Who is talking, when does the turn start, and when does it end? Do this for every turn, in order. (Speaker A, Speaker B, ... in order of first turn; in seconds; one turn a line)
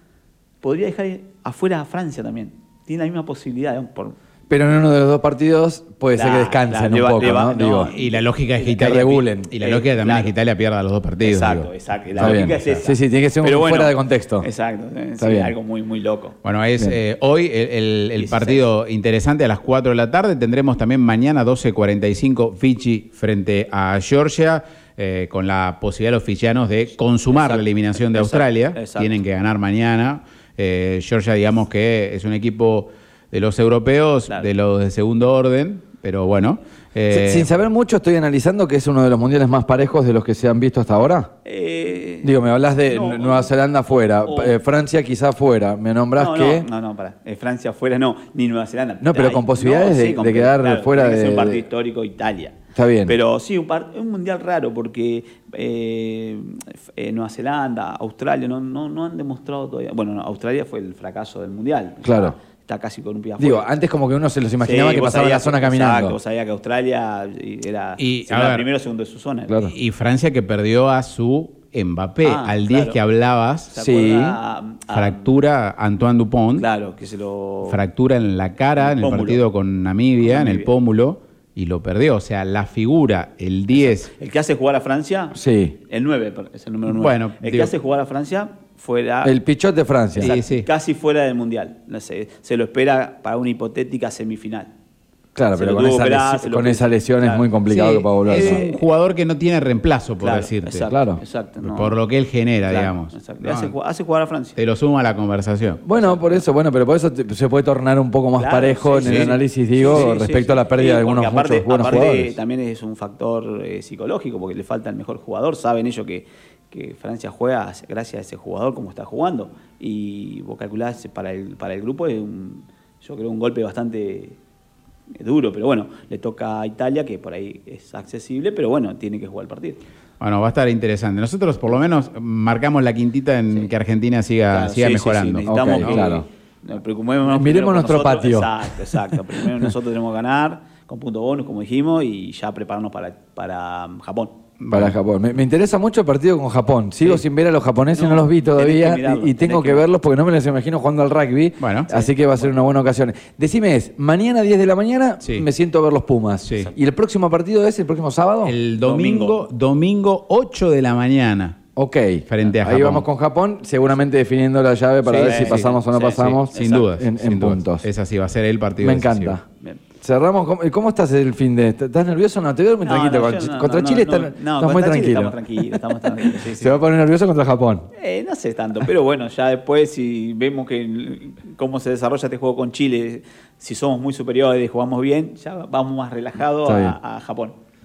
Speaker A: 0.6-4.2
Speaker B: 4.5-7.9
Speaker A: 6.2-9.0
Speaker C: 7.9-12.9
Speaker B: 8.8-9.5
Speaker A: 9.5-10.3
Speaker A: 11.2-16.4
Speaker B: 12.2-14.5
Speaker B: 15.2-15.5
Speaker C: 16.4-37.5
Speaker A: 18.2-18.6
Speaker A: 27.3-29.2
Speaker B: 37.1-41.3
Speaker A: 41.4-43.5
Speaker B: 42.2-46.6
Speaker A: 44.2-44.6
Speaker A: 46.1-63.7
Speaker B: 49.0-51.6
Speaker B: 52.7-53.2
Speaker B: 62.0-62.3
Speaker B: 63.4-66.2
Speaker A: 64.6-69.5
Speaker C: 68.0-68.7
Speaker B: 69.5-69.7
Speaker C: 69.7-73.7
Speaker A: 72.2-73.0
Speaker A: 73.7-75.4
Speaker B: 73.8-74.4
Speaker C: 74.9-76.7
Speaker A: 76.5-77.8
Speaker C: 77.6-84.1
Speaker A: 78.8-79.5
Speaker A: 80.2-80.7
Speaker A: 83.7-85.3
Speaker B: 85.3-85.8
Speaker A: 85.9-89.3
Speaker C: 86.9-87.7
Speaker B: 89.2-90.3
Speaker A: 90.1-94.7
Speaker C: 90.2-90.7
Speaker B: 95.3-98.6
Speaker A: 95.6-97.5
Speaker C: 97.7-100.9
Speaker A: 98.2-98.8
Speaker A: 100.2-101.9
Speaker B: 100.9-101.2
Speaker C: 101.6-103.7
Speaker A: 102.7-104.6
Speaker C: 104.5-105.8
Speaker B: 105.8-112.4
Speaker A: 105.9-106.4
Speaker A: 108.3-124.4
Speaker C: 109.0-109.3
Speaker A: 125.1-129.8
Speaker C: 130.2-136.0
Speaker A: 134.5-144.4
Speaker B: 135.4-136.2
Speaker B: 137.3-138.7
Speaker C: 144.6-144.9
Speaker B: 144.7-158.6
Speaker A: 147.9-149.8
Speaker C: 151.6-152.3
Speaker C: 155.2-155.5
Speaker C: 156.4-156.7
Speaker C: 158.4-161.6
Speaker A: 158.8-159.4
Speaker B: 161.8-167.8
Speaker C: 162.3-163.1
Speaker C: 165.1-165.7
Speaker A: 165.1-166.9
Speaker C: 166.2-169.3
Speaker B: 168.8-169.4
Speaker B: 170.0-177.9
Speaker A: 172.8-176.8
Speaker A: 178.0-187.5
Speaker B: 186.6-186.9